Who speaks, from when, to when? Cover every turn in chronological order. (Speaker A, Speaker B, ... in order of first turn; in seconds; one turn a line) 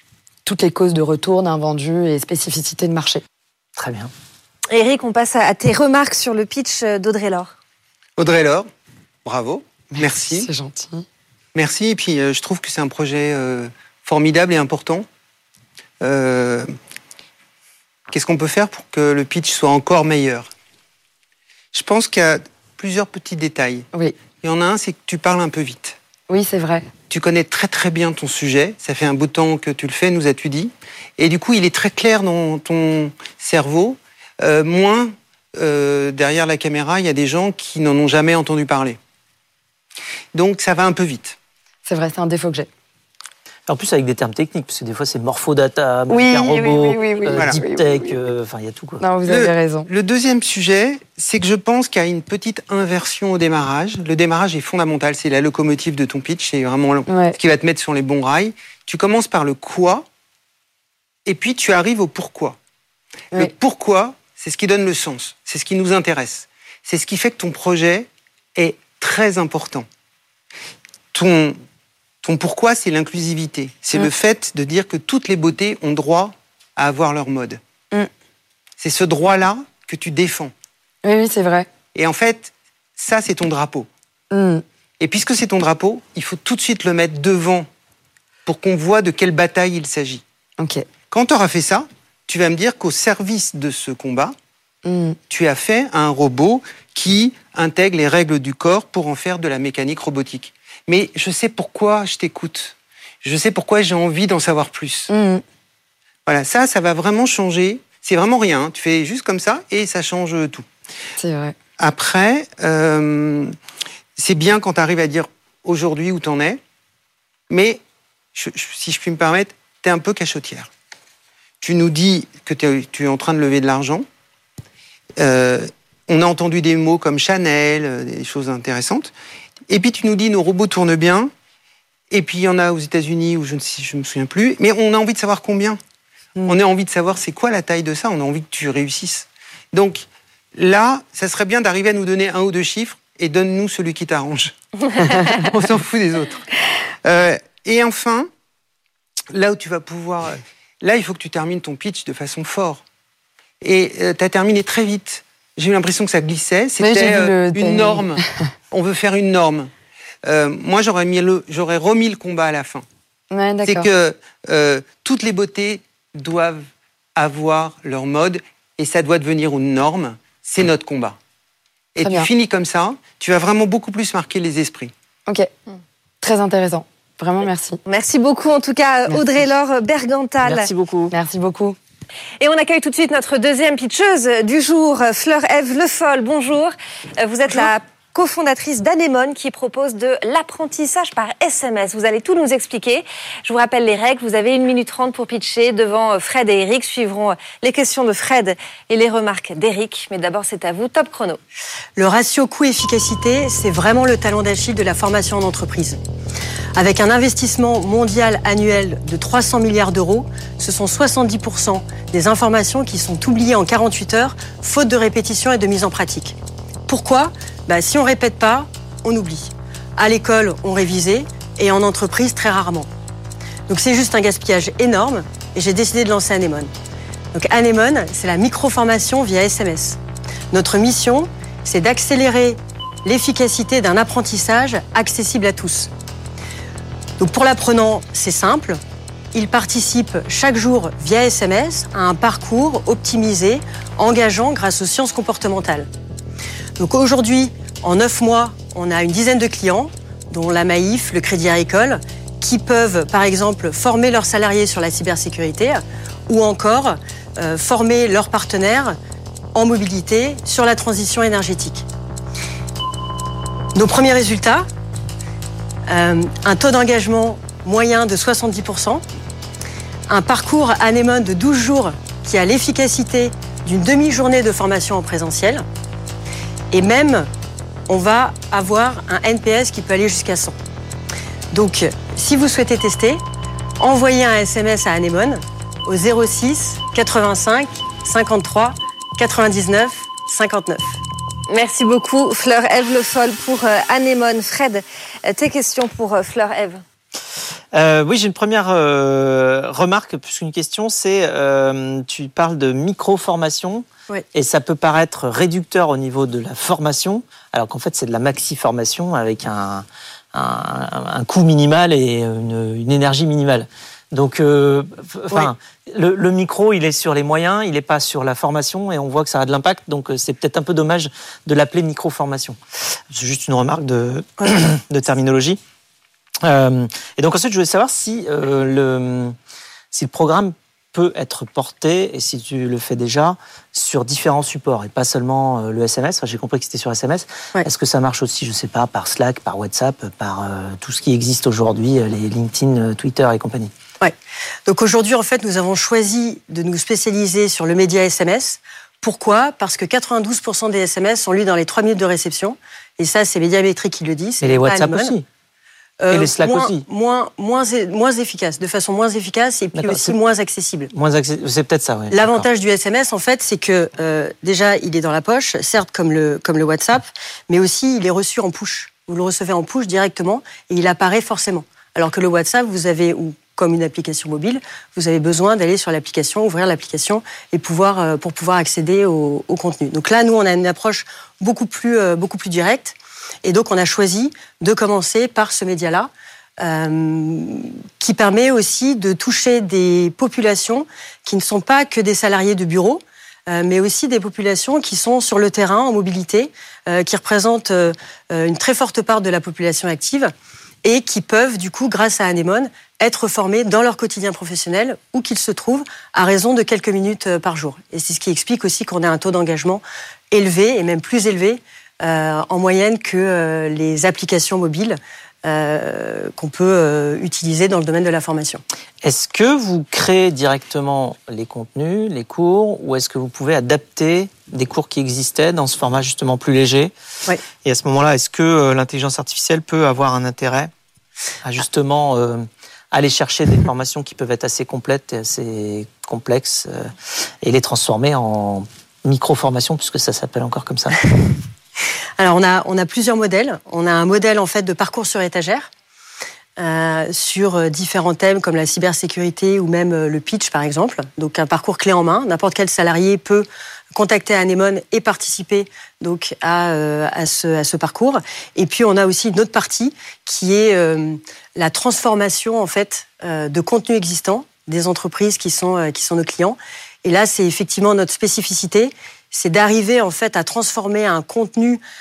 Speaker A: 0.5-3.2
Speaker B: 3.8-4.1
Speaker C: 4.7-7.5
Speaker D: 8.2-8.7
Speaker D: 9.2-10.5
Speaker A: 9.9-11.1
Speaker D: 11.5-15.0
Speaker D: 16.0-16.7
Speaker D: 18.1-20.5
Speaker D: 21.7-23.9
Speaker D: 24.4-26.0
Speaker A: 26.3-26.9
Speaker D: 27.1-39.0
Speaker D: 40.3-41.4
Speaker A: 41.8-42.7
Speaker B: 43.7-49.0
Speaker A: 46.1-48.1
Speaker A: 49.0-49.9
Speaker D: 49.3-60.0
Speaker A: 57.1-57.4
Speaker D: 61.2-62.6
Speaker D: 63.3-69.8
Speaker D: 71.1-71.5
Speaker D: 72.2-77.6
Speaker D: 78.8-80.5
Speaker A: 81.0-81.7
Speaker D: 81.9-83.9
Speaker A: 84.3-84.6
Speaker D: 85.0-87.7
Speaker D: 88.5-90.2
Speaker A: 90.6-90.8
Speaker D: 91.1-94.3
Speaker A: 94.8-95.2
Speaker D: 95.3-105.1
Speaker A: 105.1-105.4
Speaker D: 106.2-110.7
Speaker A: 111.2-111.5
Speaker D: 111.8-113.5
Speaker D: 114.2-116.6
Speaker D: 117.5-117.8
Speaker D: 118.3-120.7
Speaker D: 121.6-124.0
Speaker D: 125.2-129.1
Speaker D: 129.7-131.3
Speaker D: 132.1-135.8
Speaker D: 136.5-146.4
Speaker D: 147.0-148.3
Speaker D: 149.3-152.8
Speaker D: 153.6-159.7
Speaker A: 156.8-158.2
Speaker D: 160.2-162.8
Speaker A: 163.3-163.9
Speaker D: 163.6-171.2
Speaker D: 171.9-174.9
Speaker A: 172.0-172.3
Speaker A: 176.2-177.8
Speaker C: 177.8-180.7
Speaker B: 180.4-181.1
Speaker A: 181.1-181.8
Speaker C: 182.4-201.4
Speaker E: 202.0-206.0
Speaker E: 206.8-216.3
Speaker E: 216.9-222.9
Speaker E: 223.7-226.7
Speaker E: 227.3-230.0
Speaker E: 230.5-235.9
Speaker E: 237.2-238.8
Speaker E: 239.3-245.9
Speaker E: 246.8-258.9
Speaker E: 259.5-261.9
Speaker E: 263.7-264.6
Speaker E: 265.9-269.0
Speaker E: 270.1-275.6
Speaker E: 276.7-277.3
Speaker E: 277.9-280.5
Speaker E: 281.5-283.2
Speaker E: 283.8-291.0
Speaker C: 291.5-296.8
Speaker B: 297.7-322.6
Speaker B: 323.1-325.6
Speaker B: 326.4-329.3
Speaker B: 329.9-343.7
Speaker E: 344.7-355.1
Speaker B: 354.4-355.2
Speaker E: 356.0-360.9
Speaker B: 356.1-356.8
Speaker B: 359.7-360.1
Speaker B: 360.9-362.4
Speaker E: 362.1-400.3
Speaker E: 400.8-418.6
Speaker B: 419.0-426.9
Speaker B: 427.6-430.7
Speaker B: 431.4-441.1
Speaker E: 442.2-445.7
Speaker E: 446.6-471.8